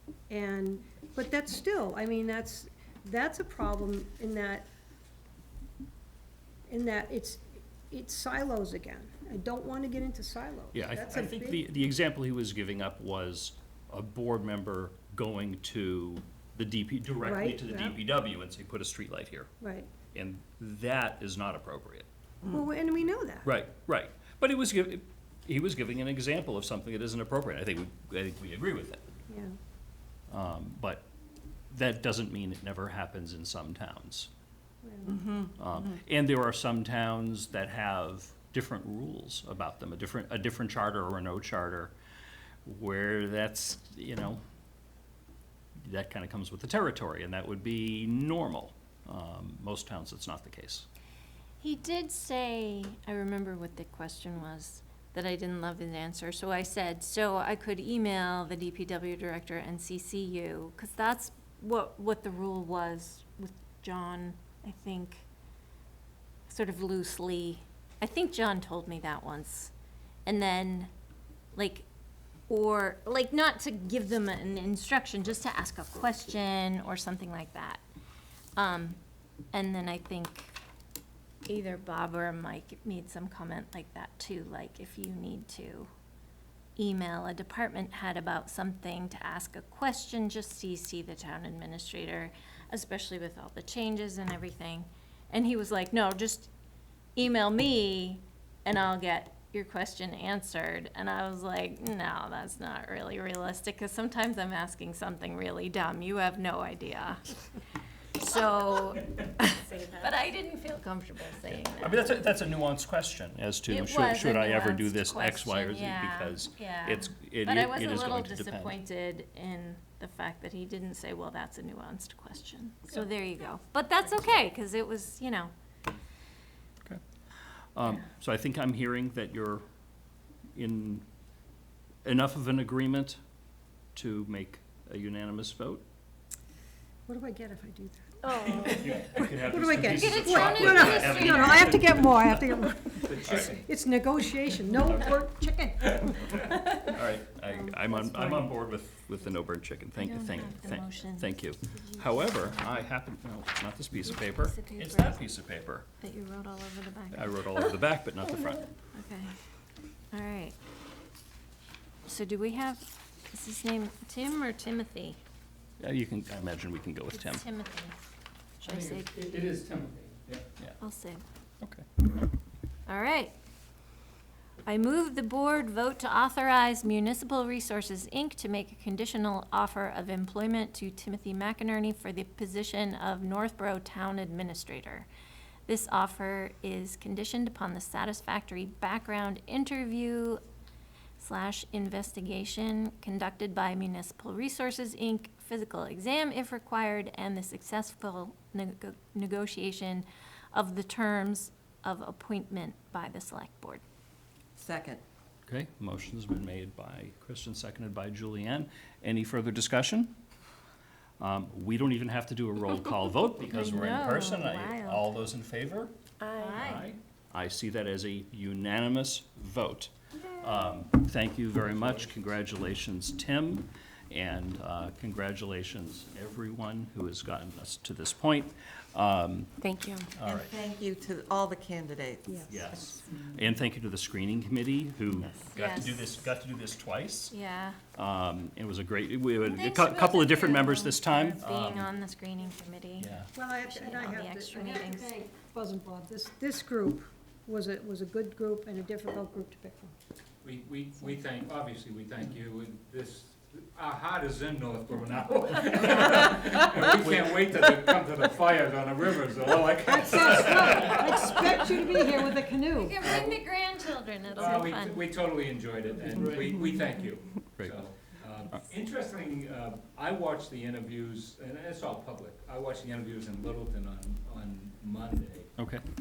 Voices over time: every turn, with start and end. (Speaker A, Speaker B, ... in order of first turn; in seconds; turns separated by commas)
Speaker A: 0.3-4.7, Speaker A: 6.7-11.7, Speaker B: 10.7-19.5, Speaker A: 17.2-18.0, Speaker A: 19.6-19.9, Speaker B: 20.1-22.1, Speaker A: 22.5-23.6, Speaker B: 23.4-29.2, Speaker A: 29.3-29.6, Speaker B: 30.3-31.1, Speaker B: 31.7-34.3, Speaker A: 34.8-35.2, Speaker C: 35.1-36.0, Speaker B: 35.6-41.9, Speaker B: 42.6-44.4, Speaker B: 45.8-50.9, Speaker D: 51.6-65.2, Speaker D: 66.5-69.7, Speaker D: 70.2-70.9, Speaker D: 71.5-71.9, Speaker D: 72.5-77.8, Speaker D: 78.5-79.0, Speaker D: 79.5-80.5, Speaker D: 81.4-85.9, Speaker D: 86.8-96.5, Speaker D: 97.2-107.3, Speaker D: 108.2-112.1, Speaker B: 111.5-118.8, Speaker D: 113.7-125.5, Speaker B: 127.7-129.6, Speaker B: 130.6-131.1, Speaker B: 132.1-133.2, Speaker B: 133.9-135.8, Speaker A: 137.1-146.9, Speaker B: 138.6-143.6, Speaker D: 139.9-141.8, Speaker E: 143.0-143.6, Speaker B: 146.8-155.9, Speaker A: 147.4-148.6, Speaker D: 150.0-151.3, Speaker D: 151.9-152.5, Speaker D: 154.1-155.2, Speaker D: 156.0-157.7, Speaker B: 157.1-158.7, Speaker D: 158.9-159.4, Speaker D: 160.1-160.6, Speaker D: 162.1-165.2, Speaker B: 165.8-167.4, Speaker D: 167.1-168.0, Speaker D: 168.6-169.2, Speaker E: 168.6-170.5, Speaker D: 170.8-171.2, Speaker B: 171.6-171.9, Speaker D: 172.9-173.3, Speaker D: 174.6-185.1, Speaker D: 185.7-190.4, Speaker D: 191.2-203.8, Speaker C: 204.6-205.0, Speaker B: 205.4-210.2, Speaker B: 211.2-215.9, Speaker D: 213.5-215.1, Speaker D: 216.3-216.9, Speaker B: 216.6-229.6, Speaker C: 229.6-233.0, Speaker B: 230.2-230.5, Speaker A: 232.3-232.5, Speaker B: 232.5-237.3, Speaker D: 235.5-236.1, Speaker D: 237.3-237.8, Speaker B: 238.0-241.9, Speaker D: 239.4-245.2, Speaker B: 243.0-243.3, Speaker A: 243.3-249.9, Speaker E: 250.4-261.3, Speaker B: 256.8-257.7, Speaker A: 259.8-263.0, Speaker B: 261.3-261.9, Speaker D: 262.7-265.1, Speaker E: 263.0-263.4, Speaker E: 264.3-275.5, Speaker B: 266.1-266.4, Speaker B: 275.6-275.8